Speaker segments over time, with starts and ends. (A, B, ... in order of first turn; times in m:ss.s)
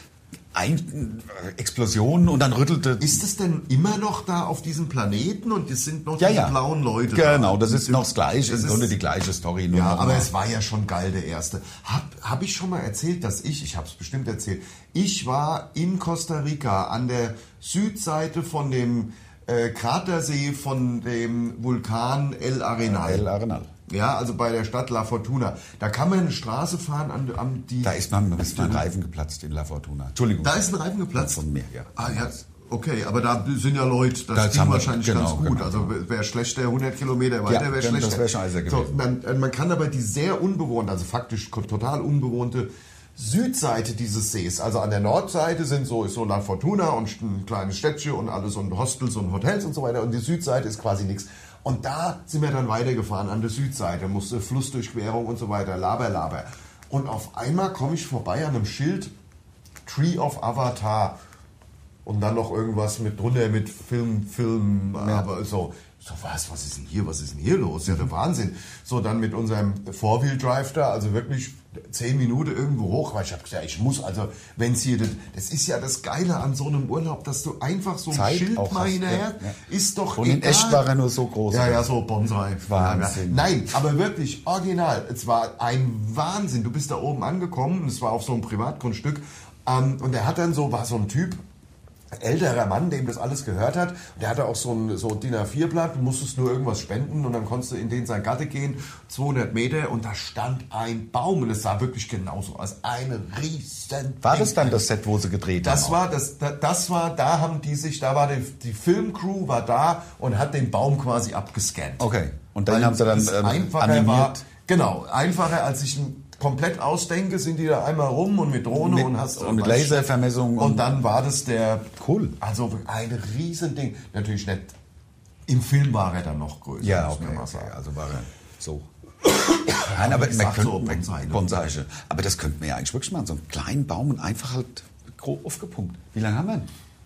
0:00.5-0:03.2 A
0:03.0-0:08.9 B
0:06.2-0:06.6 A
0:07.1-0:10.3 A
0:09.7-0:23.3 B
0:22.8-0:23.7 A
0:23.9-0:28.8 B
0:27.8-0:32.4 A
0:30.4-0:31.4 B
0:31.9-0:59.1 B
0:34.3-0:35.9 A
0:37.4-0:39.0 A
0:59.8-1:01.2 B
1:02.0-1:20.9 B
1:05.0-1:05.2 A
1:18.1-1:19.6 A
1:20.2-1:21.9 A
1:21.5-1:31.4 B
1:22.6-1:23.4 A
1:32.1-1:44.8 B
1:44.2-1:46.0 A
1:45.6-1:52.1 B
1:52.0-1:54.4 A
1:52.7-2:04.7 B
1:58.7-2:01.0 A
2:02.0-2:02.4 A
2:05.5-2:07.7 B
2:06.8-2:08.9 A
2:09.5-2:11.6 B
2:09.6-2:16.7 A